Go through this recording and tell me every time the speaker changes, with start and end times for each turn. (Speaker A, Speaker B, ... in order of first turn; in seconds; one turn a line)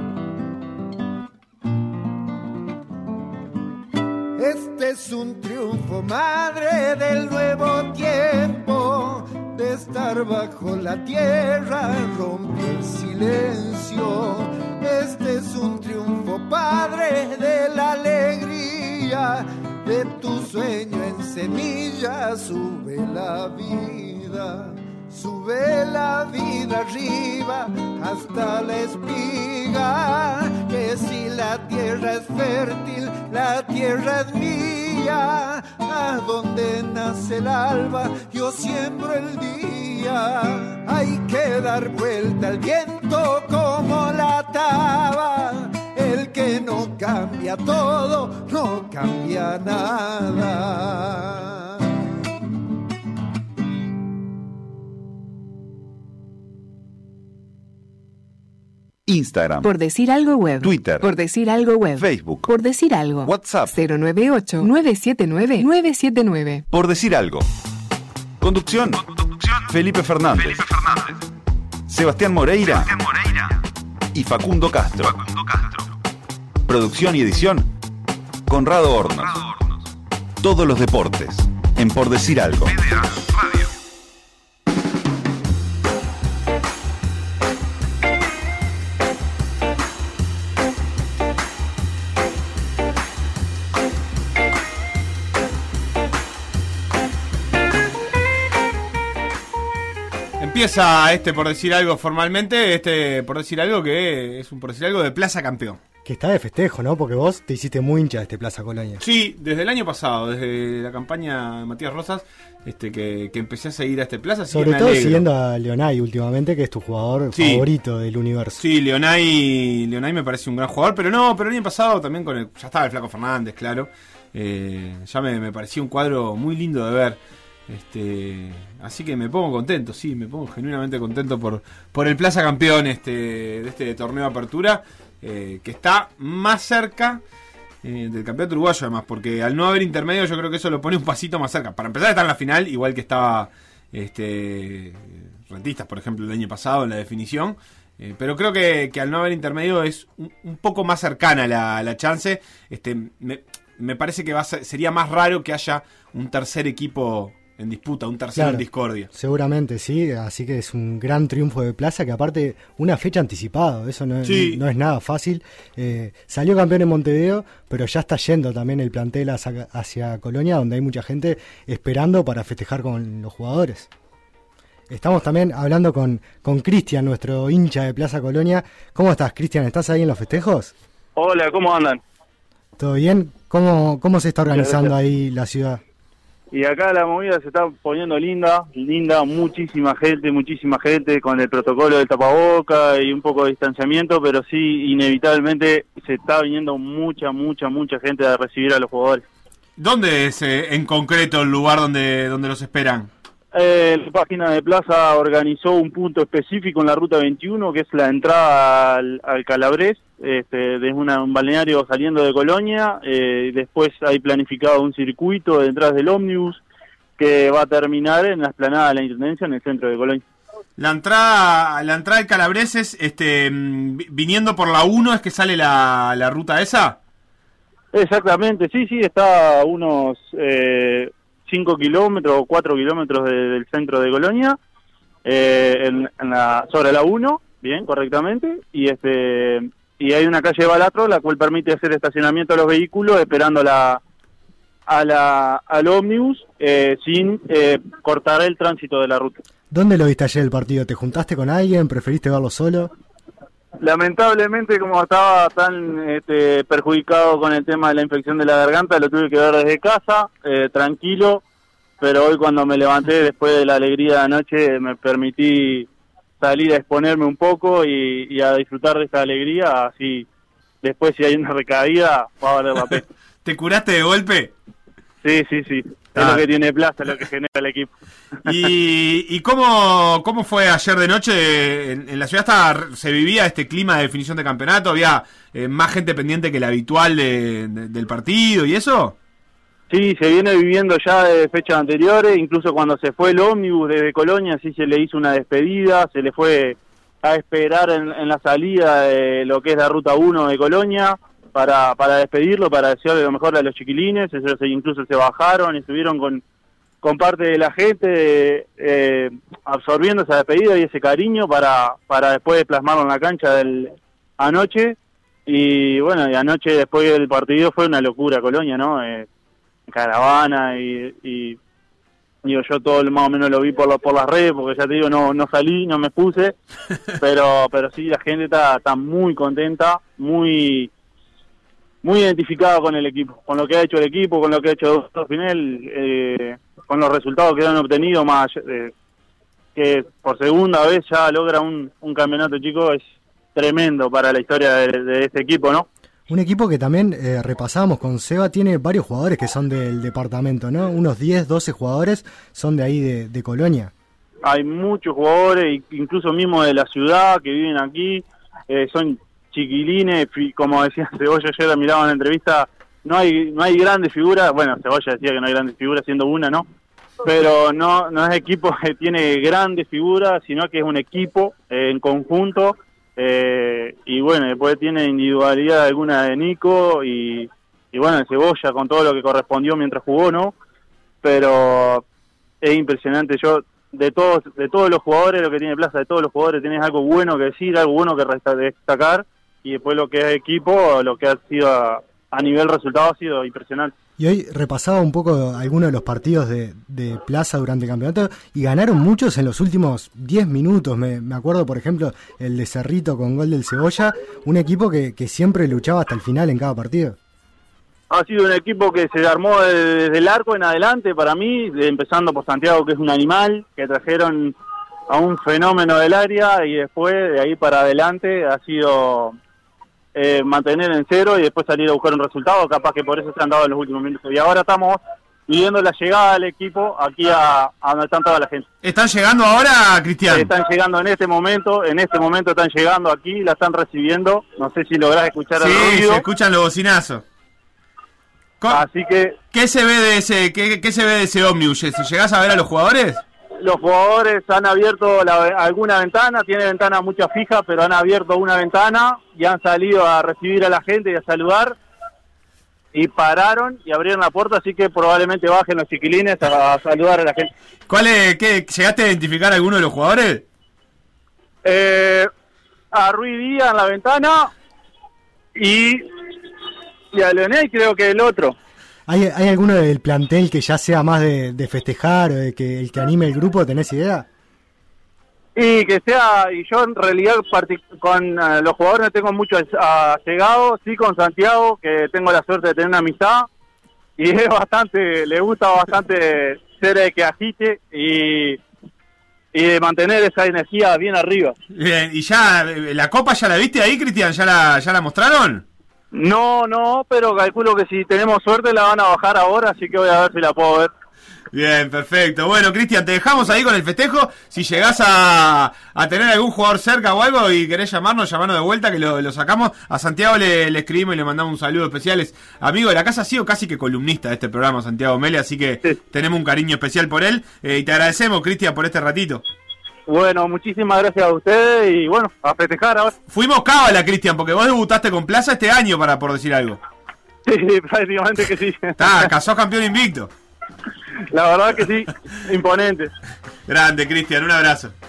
Speaker A: 4.4-52.0
Speaker B: 59.0-59.7
Speaker C: 59.6-66.6
Speaker B: 60.6-61.1
Speaker B: 61.9-62.5
Speaker B: 63.2-63.8
Speaker B: 66.7-67.5
Speaker B: 68.4-69.0
Speaker B: 69.6-71.0
Speaker B: 71.9-73.0
Speaker B: 74.1-75.3
Speaker B: 76.7-77.7
Speaker B: 78.5-79.5
Speaker B: 80.4-82.8
Speaker D: 100.4-105.8
Speaker E: 106.0-109.0
Speaker D: 109.0-115.2
Speaker E: 114.5-118.6
Speaker D: 117.3-117.7
Speaker D: 118.6-137.2
Speaker D: 137.8-159.1
Speaker E: 158.3-173.9
Speaker D: 164.2-164.6
Speaker E: 174.9-180.7
Speaker F: 181.2-182.0
Speaker E: 182.8-185.8
Speaker F: 184.5-184.9
Speaker F: 186.5-199.2
Speaker D: 199.8-203.1
Speaker F: 203.5-216.6
Speaker F: 217.2-220.2
Speaker D: 220.8-227.0
Speaker F: 227.9-234.6
Speaker F: 235.2-244.0
Speaker F: 244.9-249.4
Speaker E: 249.7-252.9
Speaker F: 253.8-261.4
Speaker F: 262.0-265.9
Speaker F: 266.4-270.3
Speaker F: 270.8-273.0
Speaker D: 273.4-274.5
Speaker F: 275.2-277.9
Speaker D: 276.1-276.4
Speaker D: 278.4-289.1
Speaker F: 289.9-306.4
Speaker F: 307.0-319.3
Speaker F: 319.9-321.6
Speaker F: 322.4-326.6
Speaker F: 327.2-330.9
Speaker F: 332.0-338.9
Speaker F: 339.7-345.9
Speaker E: 346.3-353.9
Speaker F: 354.4-366.7
Speaker F: 367.2-380.5
Speaker F: 381.2-382.0
Speaker F: 382.6-393.9
Speaker E: 394.2-407.2
Speaker F: 408.1-414.5
Speaker F: 415.1-419.4
Speaker F: 420.1-428.6
Speaker D: 428.8-430.5
Speaker F: 430.3-436.2
Speaker D: 435.6-437.2
Speaker F: 438.7-439.4
Speaker D: 439.5-443.2
Speaker F: 443.6-451.8
Speaker F: 452.9-457.5
Speaker D: 457.9-460.4
Speaker F: 461.6-462.3
Speaker F: 462.9-464.5
Speaker F: 465.6-466.0
Speaker F: 467.1-468.6
Speaker E: 469.1-474.3
Speaker F: 475.6-483.5
Speaker F: 484.2-488.6
Speaker F: 489.5-491.6
Speaker D: 491.7-495.6
Speaker F: 496.1-500.9
Speaker D: 501.5-519.4
Speaker F: 520.1-523.1
Speaker D: 523.3-526.8
Speaker F: 527.5-529.3
Speaker D: 529.0-530.3
Speaker F: 531.3-533.1
Speaker D: 533.7-534.9